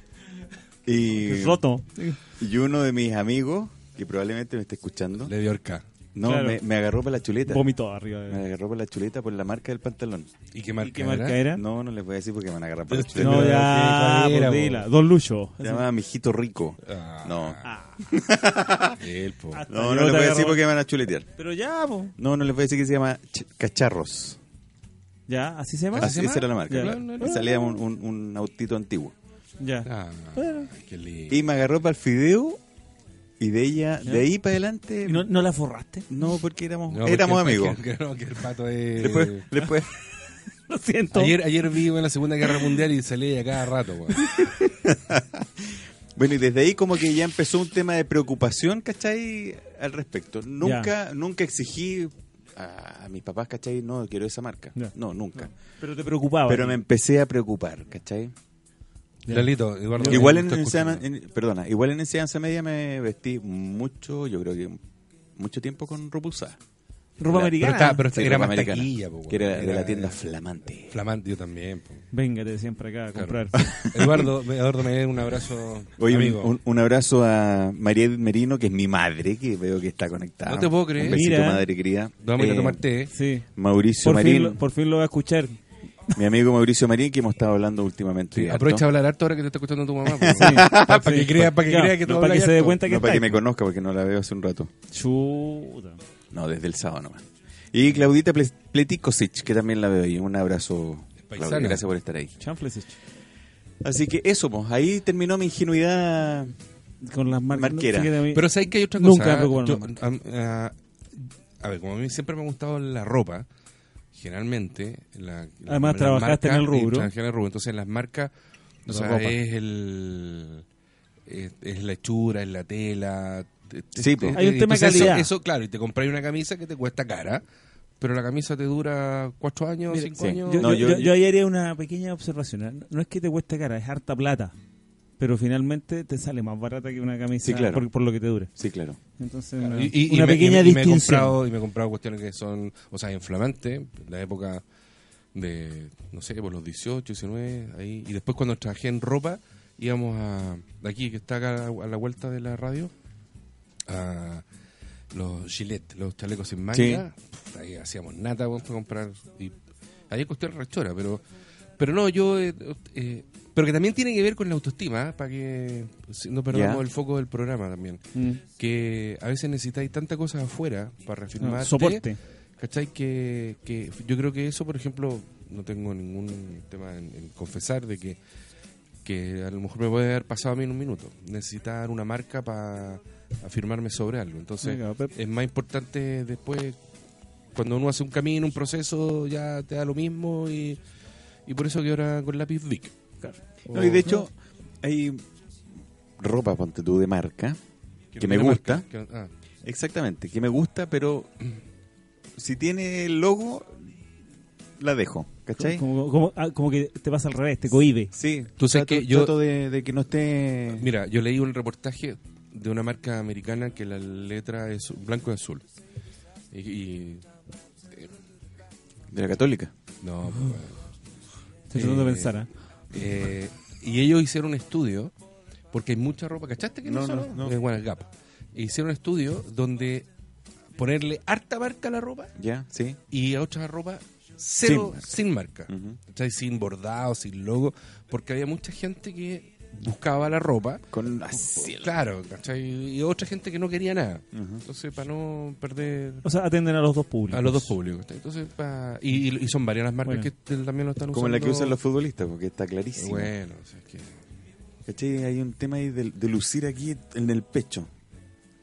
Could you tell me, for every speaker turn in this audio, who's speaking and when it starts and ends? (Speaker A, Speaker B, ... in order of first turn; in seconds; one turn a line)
Speaker A: 0.9-1.6
Speaker B: 1.1-2.2
Speaker A: 2.4-5.3
Speaker C: 5.3-5.8
Speaker A: 6.2-7.6
Speaker B: 6.2-6.6
Speaker B: 7.5-8.4
Speaker A: 8.3-10.3
Speaker C: 10.5-11.4
Speaker B: 10.8-11.6
Speaker A: 11.5-13.6
Speaker C: 12.9-14.9
Speaker B: 13.2-15.9
Speaker A: 15.6-19.0
Speaker C: 16.8-17.7
Speaker B: 17.6-18.0
Speaker C: 19.0-19.6
Speaker B: 19.5-20.6
Speaker A: 19.7-21.3
Speaker B: 21.4-22.1
Speaker A: 22.2-24.4
Speaker B: 25.3-27.6
Speaker C: 25.9-27.6
Speaker A: 26.0-29.1
Speaker B: 29.6-30.7
Speaker C: 29.9-31.4
Speaker A: 31.3-32.6
Speaker A: 33.4-35.3
Speaker B: 35.0-36.1
Speaker A: 36.1-37.8
Speaker C: 36.9-39.6
Speaker A: 39.0-39.9
Speaker B: 40.7-41.4
Speaker C: 41.1-44.5
Speaker A: 44.4-55.5
Speaker B: 50.6-50.9
Speaker B: 55.8-56.8
Speaker A: 56.5-58.3
Speaker B: 59.3-60.3
Speaker C: 59.3-61.0
Speaker A: 60.0-64.8
Speaker A: 65.4-66.6
Speaker B: 67.2-68.0
Speaker A: 67.3-70.9
Speaker C: 67.3-70.2
Speaker C: 70.9-72.1
Speaker B: 72.1-73.6
Speaker C: 73.2-76.5
Speaker A: 73.6-74.3
Speaker A: 76.0-82.8
Speaker C: 80.5-81.2
Speaker B: 81.1-81.7
Speaker C: 82.2-83.1
Speaker B: 83.1-83.5
Speaker A: 83.6-84.6
Speaker B: 84.0-85.6
Speaker A: 86.2-88.9
Speaker C: 88.3-92.8
Speaker A: 90.1-91.5
Speaker B: 90.4-93.4
Speaker A: 92.8-94.7
Speaker B: 94.9-96.0
Speaker A: 96.3-102.3
Speaker C: 101.3-101.9
Speaker B: 102.4-103.0
Speaker A: 103.8-106.5
Speaker B: 107.0-110.0
Speaker A: 107.5-108.2
Speaker C: 108.3-113.5
Speaker C: 114.1-118.3
Speaker B: 115.7-117.1
Speaker C: 118.9-120.7
Speaker B: 118.9-119.4
Speaker C: 121.3-127.4
Speaker A: 124.0-125.1
Speaker B: 124.3-125.3
Speaker C: 128.0-131.1
Speaker B: 129.9-134.5
Speaker A: 130.1-131.1
Speaker B: 135.2-138.5
Speaker A: 137.4-137.9
Speaker A: 138.6-139.0
Speaker B: 139.2-141.4
Speaker C: 139.6-144.6
Speaker C: 145.3-152.9
Speaker C: 153.9-154.4
Speaker C: 155.1-159.6
Speaker A: 156.7-157.0
Speaker C: 160.1-161.2
Speaker C: 161.8-172.1
Speaker A: 166.5-166.8
Speaker B: 168.2-168.4
Speaker B: 171.4-172.2
Speaker C: 172.6-178.2
Speaker C: 179.0-186.8
Speaker B: 184.6-185.1
Speaker C: 187.5-190.8
Speaker C: 191.5-192.9
Speaker B: 193.2-194.3
Speaker A: 193.7-195.2
Speaker A: 196.2-197.6
Speaker C: 198.1-199.3
Speaker A: 198.2-198.8
Speaker A: 199.6-201.3
Speaker A: 202.4-203.8
Speaker A: 204.8-205.8
Speaker B: 205.6-208.1
Speaker A: 208.1-210.9
Speaker C: 208.6-209.4
Speaker C: 210.8-215.7
Speaker C: 216.5-217.3
Speaker A: 219.1-219.7
Speaker C: 220.0-220.8
Speaker B: 221.7-222.5
Speaker C: 221.7-222.4
Speaker C: 222.9-225.1
Speaker C: 225.7-230.1
Speaker A: 226.8-227.6
Speaker C: 230.8-232.3
Speaker A: 232.4-233.0
Speaker C: 233.1-246.2
Speaker A: 234.6-235.0
Speaker A: 235.7-236.0
Speaker A: 240.9-242.0
Speaker A: 244.3-244.6
Speaker B: 246.2-247.7
Speaker C: 247.3-251.8
Speaker A: 251.1-253.3
Speaker C: 253.0-254.2
Speaker A: 254.9-257.9